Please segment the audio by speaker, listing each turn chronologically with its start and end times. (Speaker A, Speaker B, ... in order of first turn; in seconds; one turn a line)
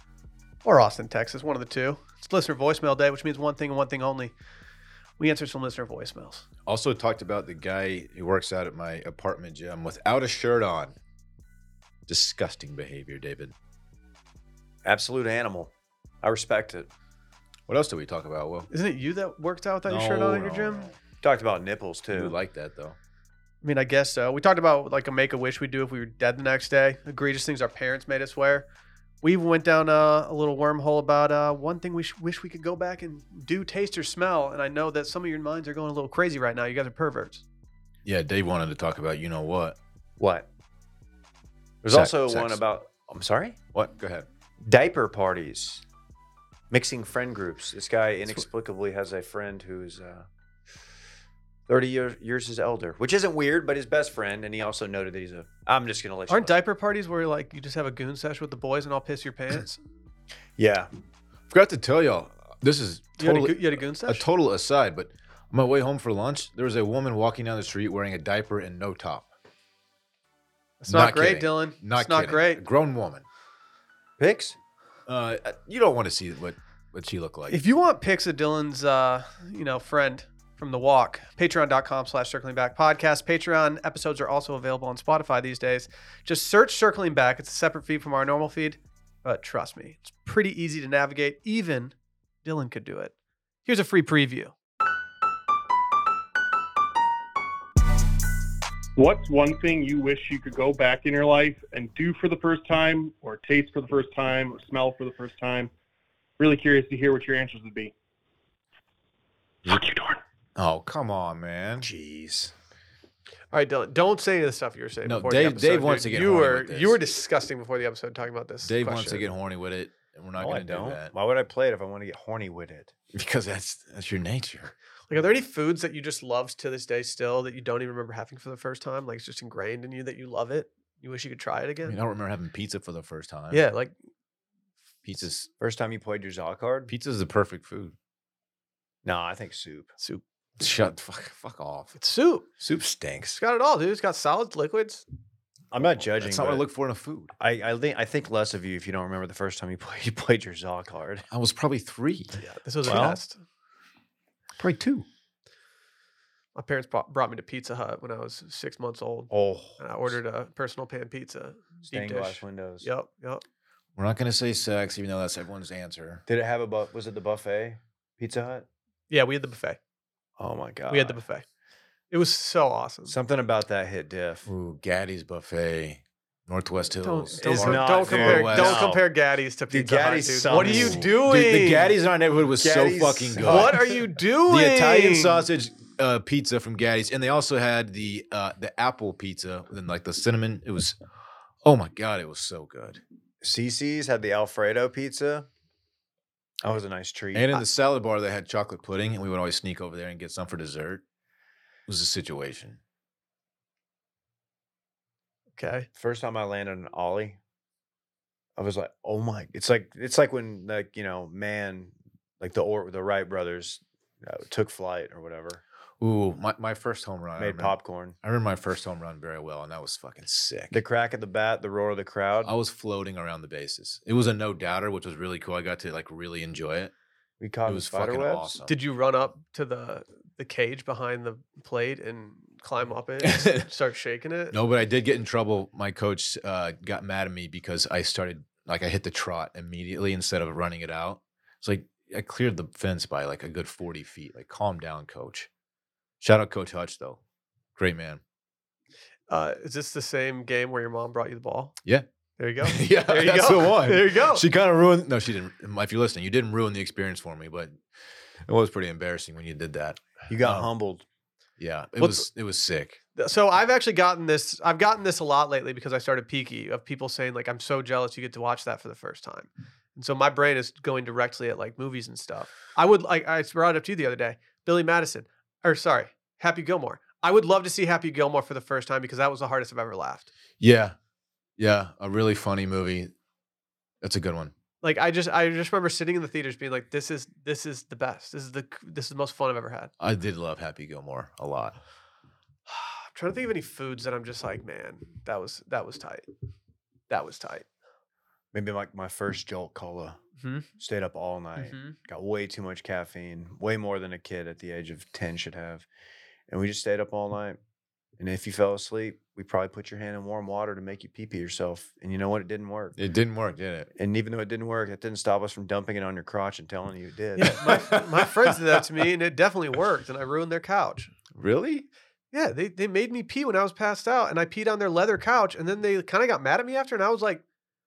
Speaker A: 0.6-4.3
Speaker A: 5.2-6.4
Speaker B: 6.7-10.9
Speaker B: 12.1-13.5
Speaker C: 14.8-16.9
Speaker B: 17.7-18.7
Speaker A: 18.7-20.9
Speaker B: 19.9-20.9
Speaker C: 21.2-22.3
Speaker B: 22.1-22.9
Speaker A: 23.6-28.7
Speaker A: 29.2-37.4
Speaker B: 38.0-39.8
Speaker C: 40.2-40.5
Speaker C: 41.8-43.6
Speaker B: 41.9-42.6
Speaker B: 43.7-44.3
Speaker C: 44.6-45.8
Speaker C: 46.7-50.3
Speaker C: 51.7-56.6
Speaker A: 56.3-59.8
Speaker C: 60.6-60.9
Speaker B: 61.5-69.3
Speaker A: 63.2-64.3
Speaker A: 70.8-72.6
Speaker B: 70.9-73.2
Speaker C: 74.2-74.5
Speaker B: 75.1-77.6
Speaker A: 77.5-93.1
Speaker A: 93.7-94.5
Speaker D: 99.0-105.7
Speaker D: 106.4-107.9
Speaker D: 109.7-110.2
Speaker B: 110.5-111.9
Speaker C: 111.8-112.5
Speaker A: 113.5-119.3
Speaker B: 115.0-117.0
Speaker B: 118.6-121.1
Speaker C: 120.4-122.9
Speaker B: 123.1-124.7
Speaker A: 125.1-132.0
Speaker B: 131.8-133.7
Speaker A: 133.5-133.9
Speaker B: 135.0-135.5
Speaker C: 135.6-136.9
Speaker B: 136.9-137.9
Speaker C: 139.0-139.9
Speaker B: 140.6-141.9
Speaker A: 141.9-142.5
Speaker B: 142.6-143.4
Speaker A: 143.4-145.0
Speaker C: 145.7-146.7
Speaker B: 146.2-147.3
Speaker C: 147.4-151.2
Speaker B: 151.3-152.4
Speaker A: 152.5-153.4
Speaker C: 152.8-153.2
Speaker C: 154.6-155.0
Speaker A: 156.5-163.4
Speaker C: 159.3-160.1
Speaker C: 161.8-162.9
Speaker B: 164.0-166.2
Speaker C: 166.3-168.7
Speaker A: 169.1-169.8
Speaker C: 170.4-171.2
Speaker A: 170.9-171.4
Speaker A: 172.1-173.2
Speaker C: 173.1-174.5
Speaker B: 174.4-179.0
Speaker A: 177.0-181.9
Speaker C: 177.4-179.0
Speaker C: 179.7-181.0
Speaker B: 180.5-191.0
Speaker C: 182.6-183.7
Speaker A: 183.4-185.4
Speaker B: 191.6-193.0
Speaker C: 193.4-195.5
Speaker C: 196.6-197.5
Speaker B: 197.3-201.0
Speaker B: 201.9-202.8
Speaker A: 205.6-205.9
Speaker C: 205.9-207.4
Speaker C: 208.6-215.6
Speaker B: 216.0-220.8
Speaker C: 217.4-218.2
Speaker C: 220.7-222.5
Speaker B: 222.4-226.9
Speaker C: 227.4-228.6
Speaker B: 227.6-228.7
Speaker A: 228.7-234.5
Speaker B: 233.2-233.6
Speaker B: 234.5-245.5
Speaker B: 246.2-247.2
Speaker B: 247.8-248.2
Speaker A: 249.3-251.8
Speaker A: 252.4-254.4
Speaker B: 252.6-257.8
Speaker B: 258.5-260.7
Speaker C: 260.3-261.0
Speaker B: 261.6-263.0
Speaker A: 262.0-262.3
Speaker A: 263.1-280.3
Speaker B: 280.6-280.9
Speaker B: 281.6-283.1
Speaker B: 284.0-284.5
Speaker A: 284.8-289.9
Speaker B: 290.0-291.8
Speaker A: 292.7-296.3
Speaker A: 297.1-297.6
Speaker C: 298.5-300.2
Speaker A: 300.4-300.7
Speaker C: 300.8-305.9
Speaker A: 301.6-301.9
Speaker C: 306.5-307.6
Speaker C: 308.2-312.9
Speaker B: 312.9-313.9
Speaker C: 313.9-317.6
Speaker A: 317.4-321.1
Speaker B: 317.4-318.5
Speaker B: 321.3-321.9
Speaker A: 322.3-327.4